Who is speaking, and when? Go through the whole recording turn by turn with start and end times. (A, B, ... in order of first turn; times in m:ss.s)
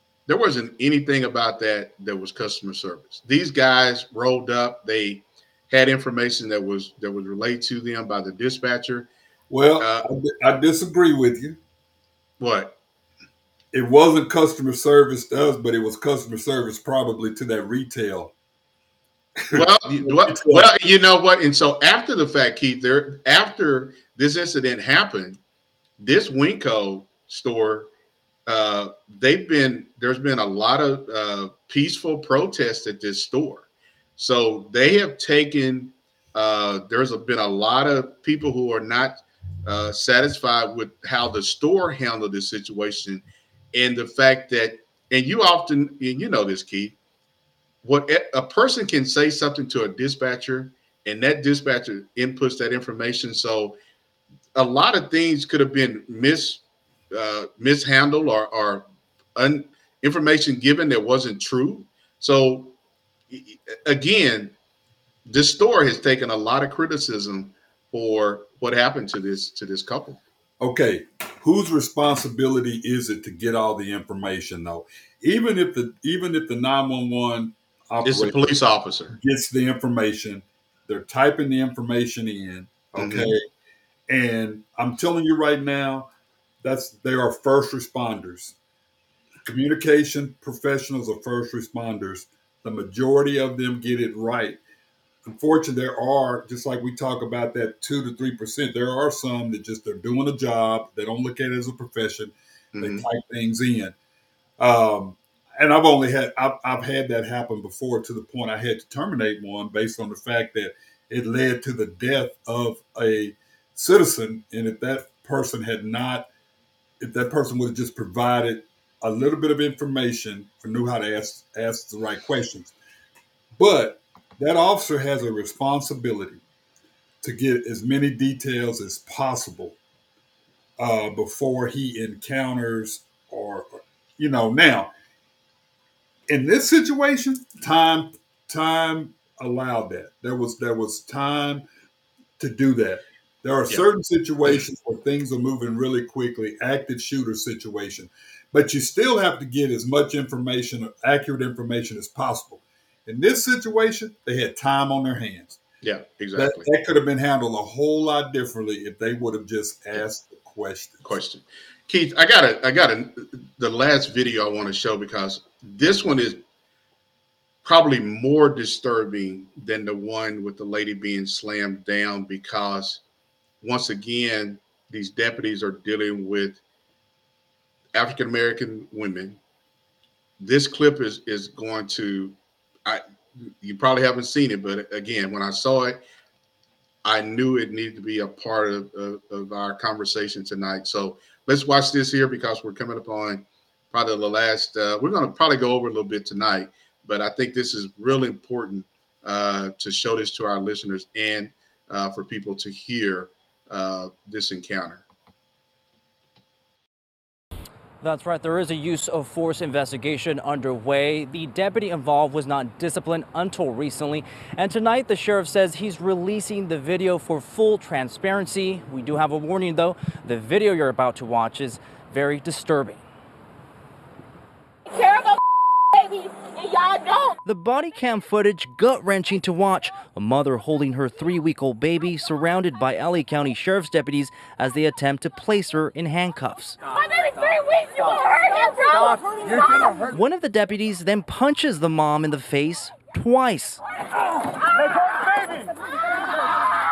0:00.3-0:09.1 A
0:09.5-0:11.6 B
0:09.8-0:10.1 A
0:12.4-0:12.8 A
0:13.7-0:18.3 B
0:19.4-0:20.7 B
0:19.5-0:25.4 A
0:26.0-0:27.9 A
0:28.5-0:47.0 A
0:47.8-0:53.8 A
0:54.6-1:02.8 A
1:03.3-1:04.6 A
1:05.3-1:10.2 A
1:10.6-1:18.6 B
1:18.0-1:19.2 A
1:19.1-1:23.5 B
1:23.0-1:23.3 A
1:24.1-1:26.1 B
1:26.6-1:28.6 B
1:29.4-1:34.6 B
1:35.2-1:44.0 B
1:42.8-1:43.0 A
1:44.6-1:56.3 B
1:57.0-2:02.7 B
2:03.6-2:06.4 B
2:07.2-2:09.8 B
2:10.8-2:14.9 B
2:16.3-2:21.6 B
2:22.4-2:35.6 B
2:35.8-2:36.7 A
2:36.4-2:41.2 B
2:41.0-2:46.4 A
2:47.6-2:53.0 A
2:53.6-2:56.6 A
2:57.9-2:59.4 A
3:00.4-3:06.0 A
3:07.0-3:25.0 A
3:28.0-3:43.0 C
3:44.9-3:45.4 D
3:46.0-3:47.4 D
3:47.4-3:56.8 C
3:56.9-4:00.0 D
4:00.0-4:03.8 C
4:05.0-4:05.7 D